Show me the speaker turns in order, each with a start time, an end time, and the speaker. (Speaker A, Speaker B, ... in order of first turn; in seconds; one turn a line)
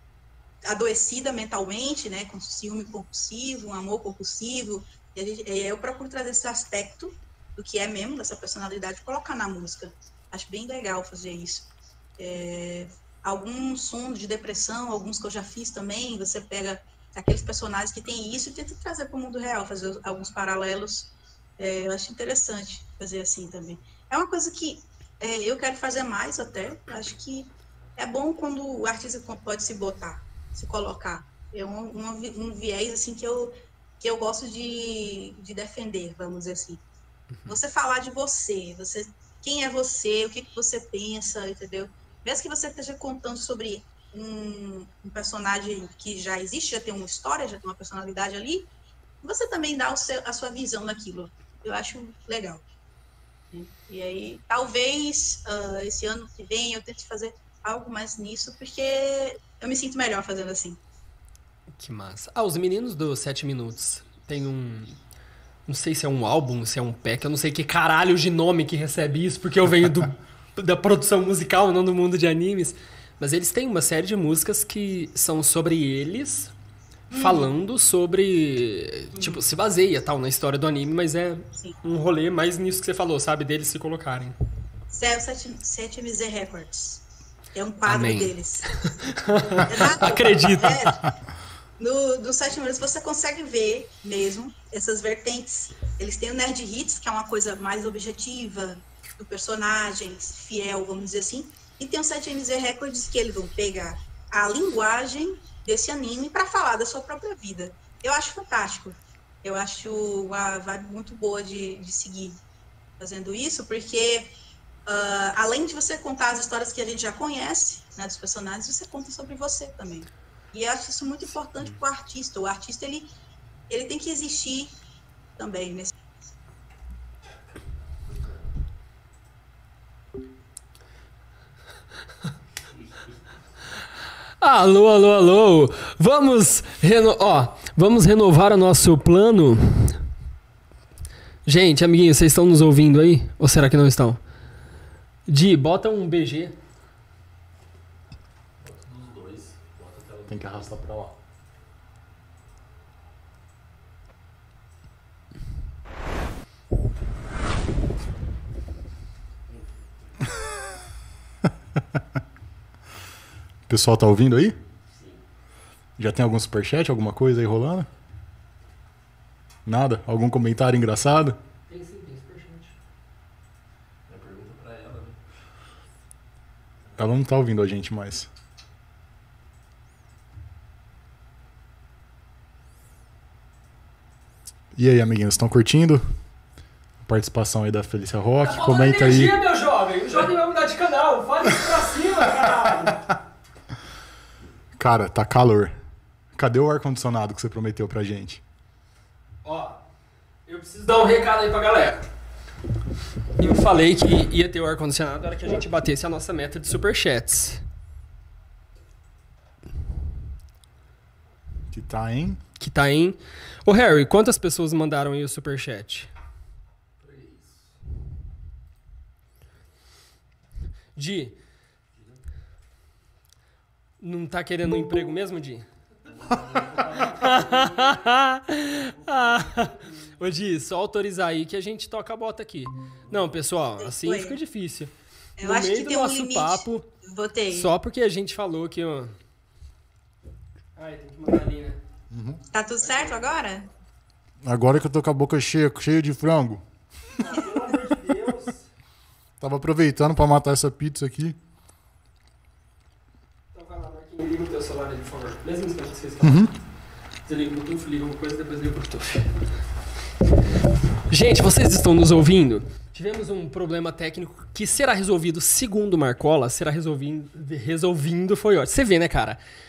Speaker A: 0.7-36.8
Speaker B: 37.3-37.6
Speaker A: 37.5-48.7
Speaker A: 49.2-52.6
Speaker A: 53.5-60.8
Speaker B: 61.8-65.0
Speaker B: 65.7-76.5
Speaker B: 77.1-84.4
Speaker A: 77.1-77.5
Speaker A: 79.1-79.4
Speaker A: 84.9-88.9
Speaker B: 87.9-91.1
Speaker A: 89.6-91.1
Speaker A: 91.8-112.4
Speaker A: 113.0-114.3
Speaker A: 114.9-123.1
Speaker A: 123.7-124.8
Speaker A: 125.4-125.9
Speaker C: 127.9-128.5
Speaker C: 132.7-133.3
Speaker B: 134.4-140.0
Speaker B: 141.5-144.2
Speaker B: 145.3-146.6
Speaker C: 148.6-150.7
Speaker D: 150.3-151.1
Speaker C: 159.5-159.8
Speaker D: 163.7-164.6
Speaker D: 166.0-167.9
Speaker D: 169.7-171.4
Speaker B: 171.7-172.7
Speaker C: 174.1-175.2
Speaker D: 177.0-178.3
Speaker D: 184.8-186.1
Speaker D: 187.0-189.4
Speaker B: 188.4-193.1
Speaker D: 194.8-195.8
Speaker D: 196.3-198.4
Speaker B: 199.4-199.8
Speaker B: 200.5-202.1
Speaker B: 203.4-207.6
Speaker D: 211.7-212.4
Speaker B: 212.6-216.1
Speaker C: 217.0-217.8
Speaker B: 221.0-221.4
Speaker C: 221.9-222.2
Speaker B: 224.0-225.7
Speaker C: 226.1-228.1
Speaker B: 227.0-236.9
Speaker A: 233.8-234.4
Speaker A: 235.4-237.7
Speaker B: 237.5-239.2
Speaker B: 240.8-241.8
Speaker D: 242.1-242.4
Speaker A: 242.5-243.7
Speaker B: 242.8-243.3
Speaker D: 244.4-246.6
Speaker B: 247.2-248.7
Speaker D: 249.4-251.4
Speaker B: 253.5-256.6
Speaker D: 256.2-256.5
Speaker B: 257.3-259.5
Speaker B: 261.1-269.4